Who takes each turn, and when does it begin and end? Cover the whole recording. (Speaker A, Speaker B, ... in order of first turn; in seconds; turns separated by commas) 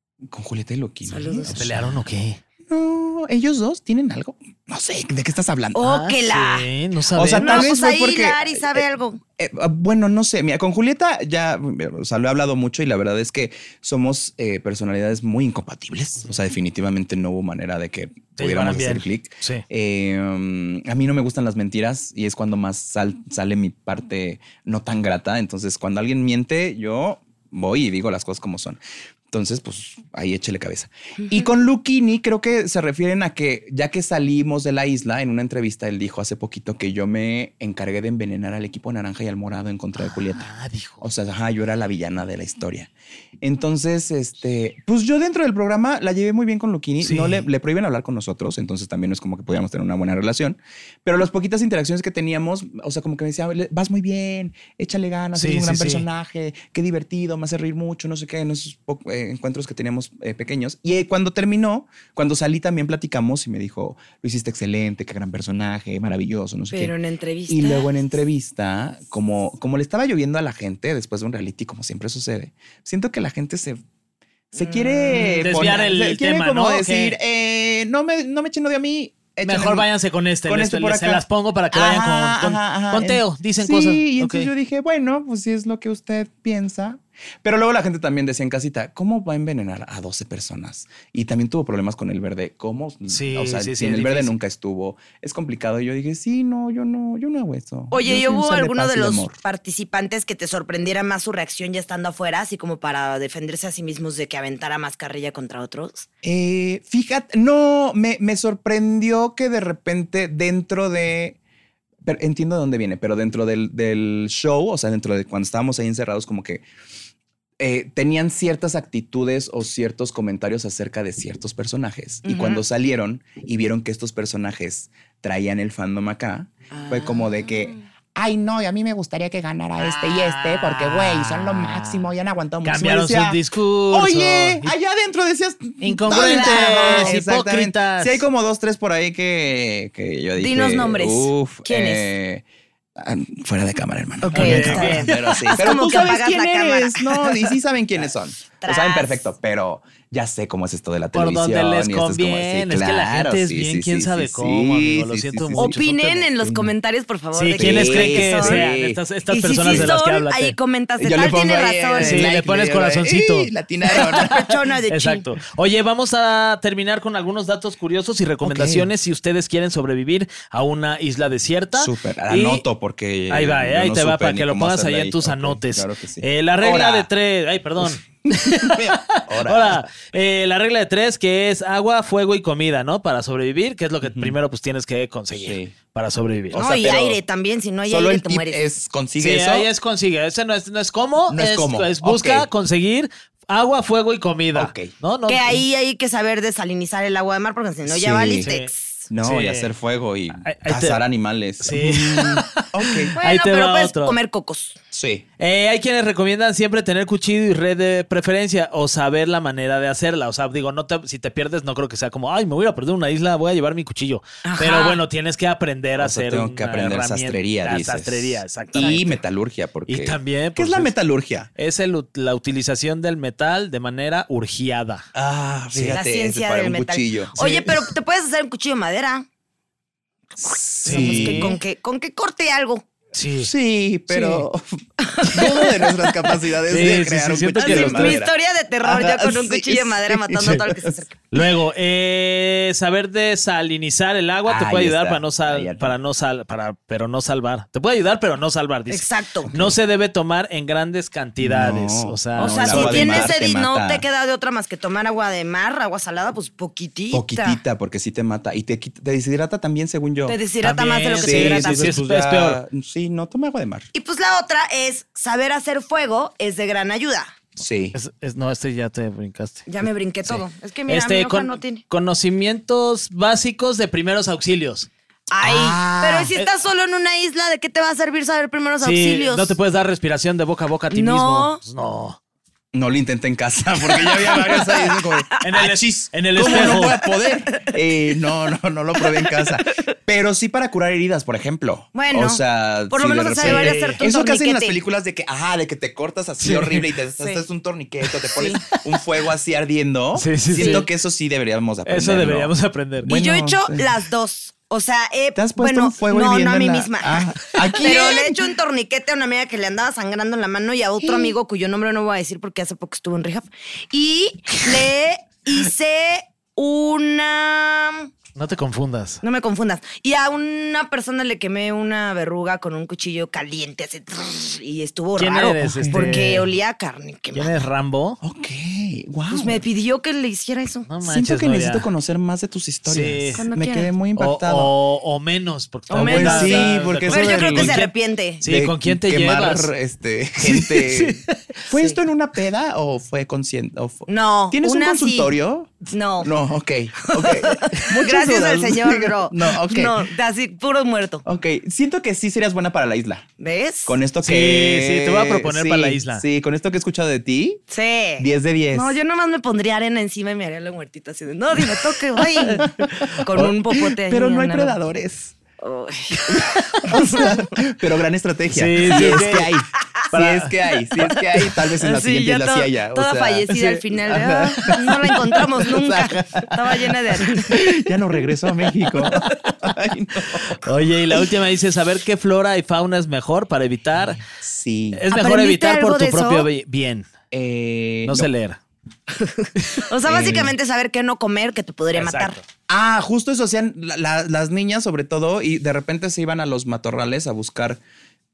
Speaker A: 0.2-2.0, Speaker B: 1.1-1.6, Speaker C: 1.5-2.4, Speaker A: 2.7-5.8, Speaker B: 5.8-6.7, Speaker C: 5.8-7.7, Speaker A: 7.1-8.8, Speaker B: 7.4-9.2, Speaker A: 9.4-40.5, Speaker C: 18.4-19.6, Speaker B: 31.2-31.5, Speaker C: 40.0-41.0, Speaker A: 41.0-42.9, Speaker A: 43.4-66.9, Speaker C: 47.0-47.5, Speaker C: 55.4-56.1, Speaker B: 66.7-67.9, Speaker A: 67.5-73.8, Speaker A: 74.5-79.9, Speaker B: 74.6-75.8, Speaker C: 75.4-77.2, Speaker C: 79.5-84.5, Speaker A: 80.5-99.4, Speaker C: 93.1-94.4, Speaker B: 97.9-106.1, Speaker A: 106.2-111.4, Speaker A: 112.0-116.7, Speaker A: 117.6-142.4, Speaker B: 122.2-122.7, Speaker B: 126.7-127.8, Speaker C: 129.8-132.1, Speaker C: 132.6-134.7, Speaker C: 135.8-138.2, Speaker B: 136.2-137.1, Speaker B: 140.4-142.1, Speaker A: 143.0-155.7, Speaker B: 144.2-147.5, Speaker C: 144.3-145.4, Speaker B: 148.6-149.2, Speaker C: 151.1-156.3, Speaker B: 155.6-158.7, Speaker A: 156.4-156.7, Speaker C: 157.3-160.6, Speaker A: 157.6-159.0, Speaker B: 159.3-162.3, Speaker A: 159.6-159.9, Speaker A: 161.0-164.5, Speaker C: 162.0-164.2, Speaker B: 163.9-165.3, Speaker C: 164.9-172.7, Speaker A: 168.4-168.9, Speaker A: 171.7-177.1, Speaker C: 173.3-186.6, Speaker A: 177.8-179.9, Speaker A: 184.0-184.4, Speaker A: 185.3-185.8, Speaker A: 186.5-187.2, Speaker B: 186.5-188.6, Speaker A: 187.9-189.7, Speaker C: 189.2-195.6, Speaker A: 191.3-192.5, Speaker A: 194.6-194.9, Speaker B: 195.3-199.1, Speaker A: 197.9-198.5, Speaker C: 198.4-199.7, Speaker A: 199.1-203.2, Speaker C: 200.4-201.0, Speaker C: 201.6-204.2, Speaker B: 203.2-204.8, Speaker A: 204.9-205.2, Speaker C: 205.4-219.2, Speaker B: 214.4-215.0, Speaker A: 216.0-221.5, Speaker B: 218.8-219.0, Speaker C: 219.9-220.9, Speaker C: 221.6-225.1, Speaker A: 225.1-227.5, Speaker C: 225.7-226.0, Speaker B: 225.9-229.3, Speaker C: 227.3-227.7, Speaker A: 230.4-231.6, Speaker C: 230.8-231.6, Speaker B: 230.8-232.8, Speaker C: 233.1-233.5, Speaker A: 233.4-234.7, Speaker B: 234.1-234.4, Speaker B: 235.0-236.1, Speaker A: 235.3-238.3, Speaker C: 236.7-238.2, Speaker B: 237.6-241.3, Speaker A: 238.8-240.6, Speaker C: 241.3-253.3, Speaker A: 244.5-245.9, Speaker B: 248.9-249.5, Speaker A: 249.5-249.8, Speaker A: 251.4-254.1, Speaker B: 252.4-257.6, Speaker A: 257.1-260.4, Speaker B: 260.3-261.9, Speaker C: 260.6-262.6, Speaker A: 261.2-263.9, Speaker B: 263.9-267.3, Speaker A: 267.6-268.0, Speaker C: 267.9-274.9, Speaker B: 269.7-271.8, Speaker B: 275.3-279.5, Speaker A: 275.4-276.4, Speaker C: 278.8-282.2, Speaker B: 280.9-281.6, Speaker A: 282.7-303.9, Speaker C: 285.4-287.0, Speaker B: 286.4-287.0, Speaker B: 289.0-289.8, Speaker B: 291.9-294.8, Speaker C: 293.4-294.0, Speaker C: 296.4-296.9, Speaker C: 300.1-300.9, Speaker B: 300.6-300.8, Speaker C: 301.9-303.1, Speaker B: 303.1-307.2, Speaker A: 305.4-308.4, Speaker B: 307.8-318.1, Speaker A: 311.0-311.4, Speaker C: 318.4-319.2, Speaker B: 319.2-327.6, Speaker C: 325.2-326.5, Speaker A: 325.6-326.2, Speaker C: 327.3-328.2, Speaker A: 328.2-329.6, Speaker B: 329.3-330.9, Speaker C: 330.9-331.9, Speaker A: 331.0-334.7, Speaker C: 332.9-333.5, Speaker B: 333.4-333.9, Speaker C: 334.2-339.7, Speaker A: 335.9-337.9, Speaker B: 335.9-338.4, Speaker A: 338.4-350.1, Speaker C: 340.4-341.6, Speaker B: 344.1-345.3, Speaker B: 345.9-346.3, Speaker B: 347.0-351.2, Speaker A: 351.2-353.3, Speaker B: 353.4-354.0, Speaker A: 353.9-357.6, Speaker C: 354.2-356.2, Speaker B: 357.7-364.8, Speaker A: 358.2-359.0, Speaker A: 361.7-365.4, Speaker B: 365.6-367.4, Speaker A: 366.1-380.7, Speaker C: 368.5-369.5, Speaker B: 368.9-369.2, Speaker C: 370.1-370.5, Speaker B: 371.1-377.6, Speaker C: 380.5-384.2, Speaker A: 383.9-385.0, Speaker C: 384.9-387.1, Speaker B: 385.1-386.5, Speaker A: 387.3-388.3, Speaker C: 388.1-388.6, Speaker B: 389.1-392.4, Speaker C: 389.6-389.9, Speaker A: 390.1-390.5, Speaker C: 391.9-392.4, Speaker A: 392.7-397.8